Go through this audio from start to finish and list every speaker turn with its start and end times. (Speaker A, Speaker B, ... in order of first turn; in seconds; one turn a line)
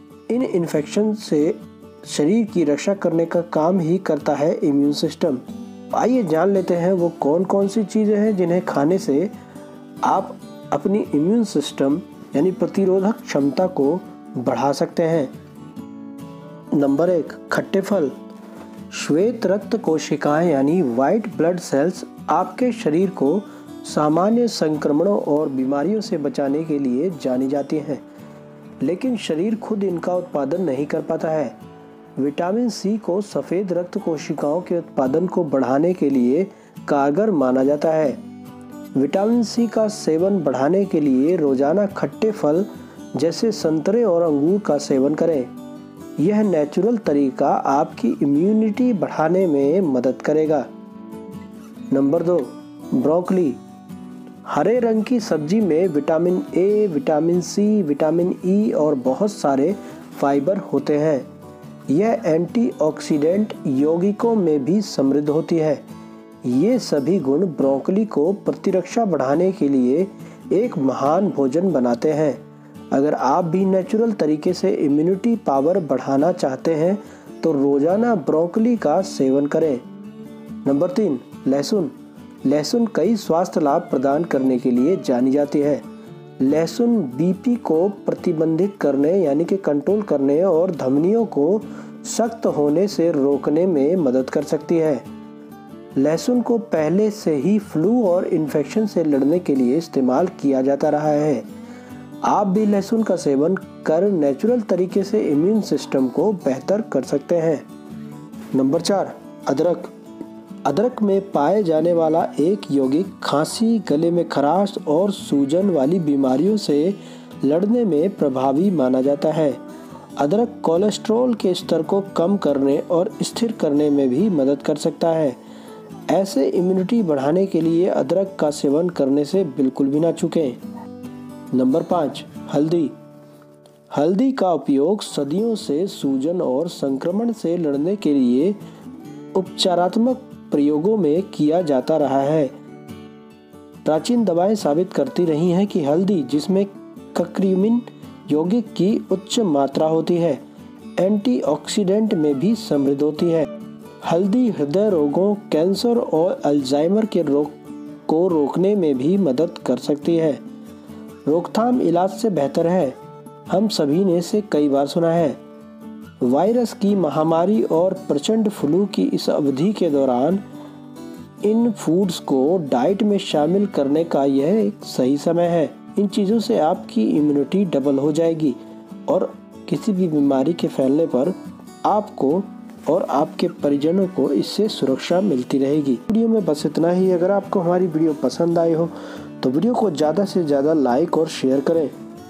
Speaker A: 0.3-9.3
Speaker A: 10.0-15.3
Speaker A: 16.8-18.1
Speaker A: 18.9-28.0
Speaker A: 28.8-31.6
Speaker A: 32.2-38.2
Speaker A: 39.0-45.5
Speaker A: 46.2-50.7
Speaker A: 51.9-53.6
Speaker A: 54.5-61.3
Speaker A: 61.9-65.8
Speaker A: 66.4-79.8
Speaker A: 80.6-81.9
Speaker A: 82.4-85.8
Speaker A: 86.4-95.1
Speaker A: 96.0-101.5
Speaker A: 102.2-107.7
Speaker A: 108.5-109.9
Speaker A: 110.6-119.6
Speaker A: 120.2-125.4
Speaker A: 126.1-130.6
Speaker A: 131.5-132.9
Speaker A: 133.9-138.6
Speaker A: 139.3-142.5
Speaker A: 143.8-150.4
Speaker A: 151.0-153.5
Speaker A: 154.0-157.6
Speaker A: 158.1-160.4
Speaker A: 161.2-163.0
Speaker A: 163.5-165.4
Speaker A: 166.2-170.4
Speaker A: 171.4-191.9